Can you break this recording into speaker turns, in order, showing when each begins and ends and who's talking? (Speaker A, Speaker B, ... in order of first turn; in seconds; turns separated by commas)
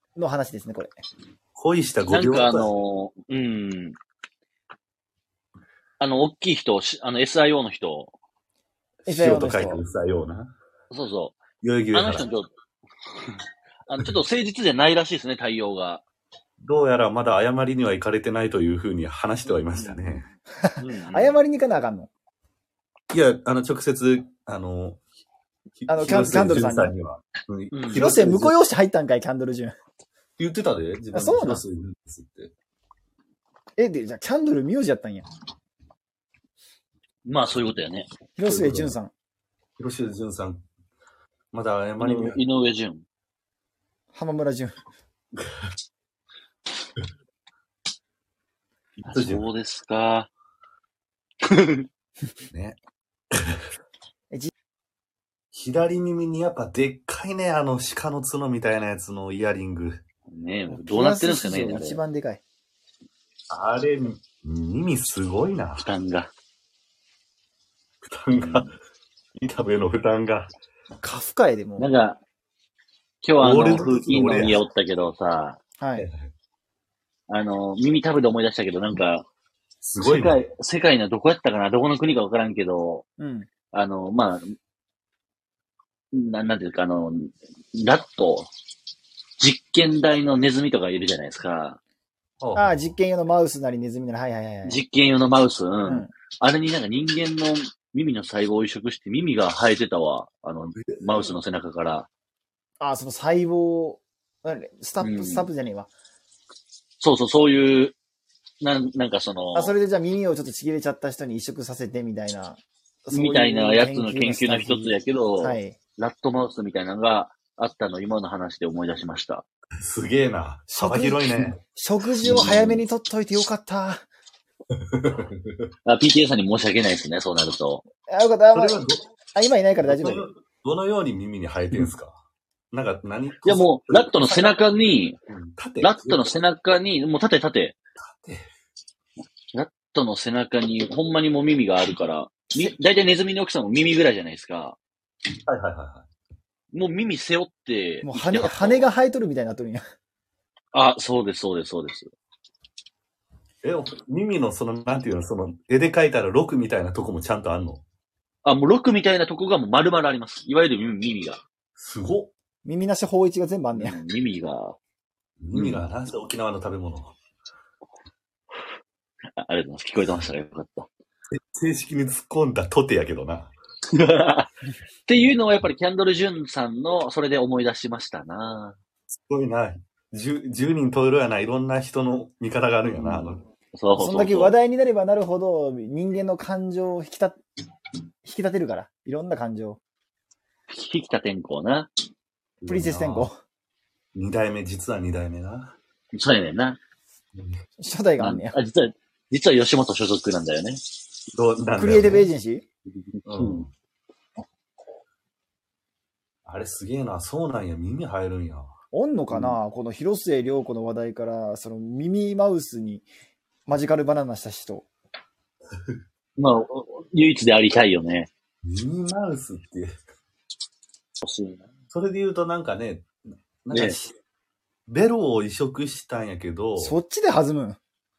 Speaker A: 0.1-1.0, Speaker B: 1.5-2.7, Speaker C: 2.1-4.0, Speaker C: 6.0-8.1, Speaker B: 9.1-10.5, Speaker A: 9.1-9.8, Speaker C: 10.9-11.4, Speaker B: 11.6-12.3, Speaker C: 11.9-12.5, Speaker C: 13.2-16.0, Speaker B: 16.6-20.3, Speaker C: 19.7-20.2, Speaker A: 20.7-22.1, Speaker C: 20.8-21.4, Speaker B: 23.1-25.0, Speaker B: 25.8-28.6, Speaker A: 25.9-26.9, Speaker C: 27.7-28.0, Speaker A: 27.9-29.7, Speaker B: 30.4-32.5, Speaker A: 31.1-31.6, Speaker A: 33.8-35.2, Speaker C: 37.2-38.1, Speaker A: 38.4-39.1, Speaker B: 38.4-39.0, Speaker B: 39.8-40.6, Speaker B: 41.5-42.4, Speaker C: 42.0-43.0, Speaker A: 44.1-44.7, Speaker C: 49.0-50.3, Speaker B: 49.0-49.5, Speaker C: 51.4-51.9, Speaker B: 52.5-52.8, Speaker B: 55.5-60.0, Speaker C: 60.3-62.0, Speaker A: 60.7-62.4, Speaker B: 63.5-65.9, Speaker C: 65.8-66.3, Speaker B: 68.0-68.7, Speaker C: 68.3-68.7, Speaker B: 69.4-70.5, Speaker A: 71.0-71.9, Speaker C: 71.8-72.2, Speaker C: 73.2-75.6, Speaker B: 73.4-74.6, Speaker A: 75.8-76.0, Speaker B: 76.0-76.3, Speaker C: 77.3-79.2, Speaker B: 79.8-80.5, Speaker C: 80.0-83.0, Speaker A: 83.2-83.5, Speaker C: 83.7-84.5, Speaker C: 86.1-88.5, Speaker C: 89.4-91.8, Speaker B: 92.4-92.8, Speaker A: 92.5-94.8, Speaker C: 94.6-102.1, Speaker A: 95.8-96.1, Speaker B: 100.8-101.3, Speaker A: 102.8-105.9, Speaker C: 105.0-105.5, Speaker C: 107.0-108.0, Speaker C: 108.6-109.8, Speaker A: 109.5-115.8, Speaker C: 113.1-119.4, Speaker B: 119.8-121.6, Speaker A: 120.8-124.0, Speaker B: 122.2-122.6, Speaker C: 122.2-122.8, Speaker B: 124.9-125.6, Speaker C: 125.8-127.8, Speaker A: 128.0-128.8, Speaker B: 128.5-129.0, Speaker A: 129.3-130.2, Speaker B: 129.8-132.2, Speaker B: 132.7-134.6, Speaker C: 133.4-135.2, Speaker B: 135.3-136.3, Speaker C: 135.8-137.8, Speaker B: 138.1-138.4, Speaker C: 139.5-144.8, Speaker B: 145.5-146.1, Speaker C: 146.7-148.9, Speaker A: 148.0-149.8, Speaker C: 150.7-152.1, Speaker B: 153.6-157.8, Speaker C: 158.4-161.4, Speaker B: 161.8-162.3, Speaker A: 162.6-164.0, Speaker C: 163.7-164.8, Speaker B: 165.4-167.1, Speaker C: 165.5-165.8, Speaker C: 169.4-170.9, Speaker B: 171.4-173.5, Speaker C: 173.9-174.5, Speaker C: 175.1-178.8, Speaker B: 179.1-183.4, Speaker C: 183.0-184.5, Speaker A: 183.9-187.4, Speaker A: 188.2-189.8, Speaker C: 190.7-191.9, Speaker B: 192.6-193.3, Speaker A: 192.7-193.4, Speaker B: 194.1-195.8, Speaker C: 196.1-196.8, Speaker B: 197.3-197.6, Speaker A: 197.8-198.6, Speaker C: 198.2-200.8, Speaker B: 201.3-202.3, Speaker A: 201.7-202.7, Speaker B: 203.2-203.7, Speaker C: 203.3-203.6, Speaker B: 206.4-208.7, Speaker A: 208.9-213.1, Speaker C: 209.3-209.6, Speaker A: 213.7-214.9, Speaker C: 216.4-218.3, Speaker B: 218.6-219.9, Speaker C: 221.2-221.7, Speaker B: 221.9-223.1, Speaker B: 223.6-224.1, Speaker B: 224.9-227.0, Speaker A: 226.8-227.8